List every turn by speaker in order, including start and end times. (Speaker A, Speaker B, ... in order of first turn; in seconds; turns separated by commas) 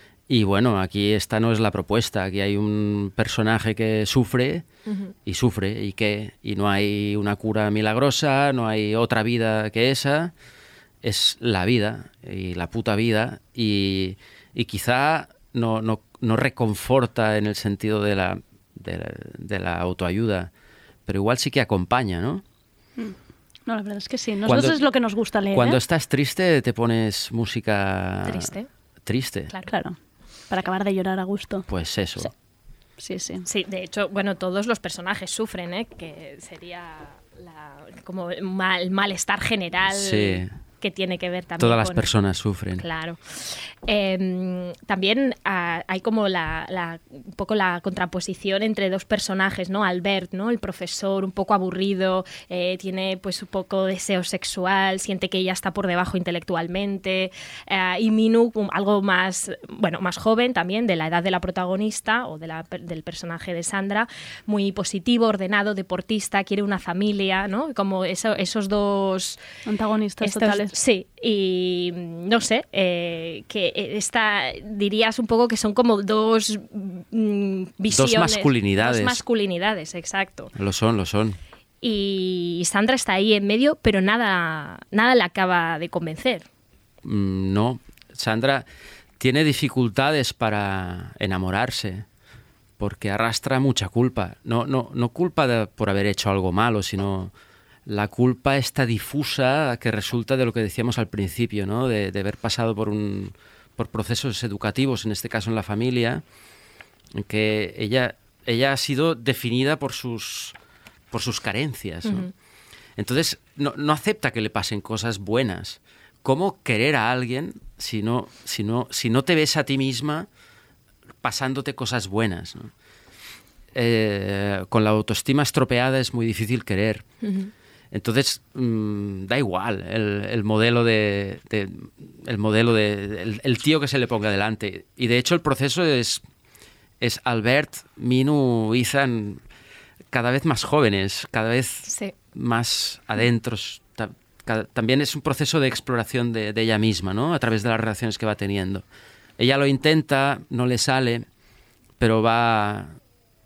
Speaker A: 0.3-4.6, Speaker B: 4.8-5.1, Speaker A: 5.2-10.3, Speaker A: 11.0-20.5, Speaker A: 21.1-22.4, Speaker C: 23.7-25.8, Speaker A: 24.4-24.8, Speaker A: 25.5-28.5, Speaker B: 28.2-28.7, Speaker A: 29.1-29.5, Speaker C: 29.6-29.9, Speaker C: 30.5-31.6, Speaker A: 31.7-32.3, Speaker C: 33.0-33.4, Speaker B: 33.4-42.1, Speaker A: 39.9-40.5, Speaker A: 41.6-42.8, Speaker B: 42.8-69.4, Speaker C: 69.7-70.7, Speaker B: 70.2-80.5, Speaker A: 77.9-79.2, Speaker A: 80.5-81.4, Speaker B: 81.8-86.4, Speaker A: 87.0-88.6, Speaker A: 89.2-92.0, Speaker A: 92.8-97.3, Speaker A: 97.9-106.2, Speaker A: 107.1-110.5, Speaker A: 111.1-112.3, Speaker B: 112.0-112.3, Speaker A: 113.0-120.3, Speaker A: 121.2-122.7, Speaker A: 123.7-127.0, Speaker B: 127.2-127.5, Speaker A: 127.9-136.2, Speaker A: 137.0-139.4, Speaker A: 140.1-148.8, Speaker B: 141.8-142.1, Speaker A: 149.4-151.2, Speaker A: 152.0-152.9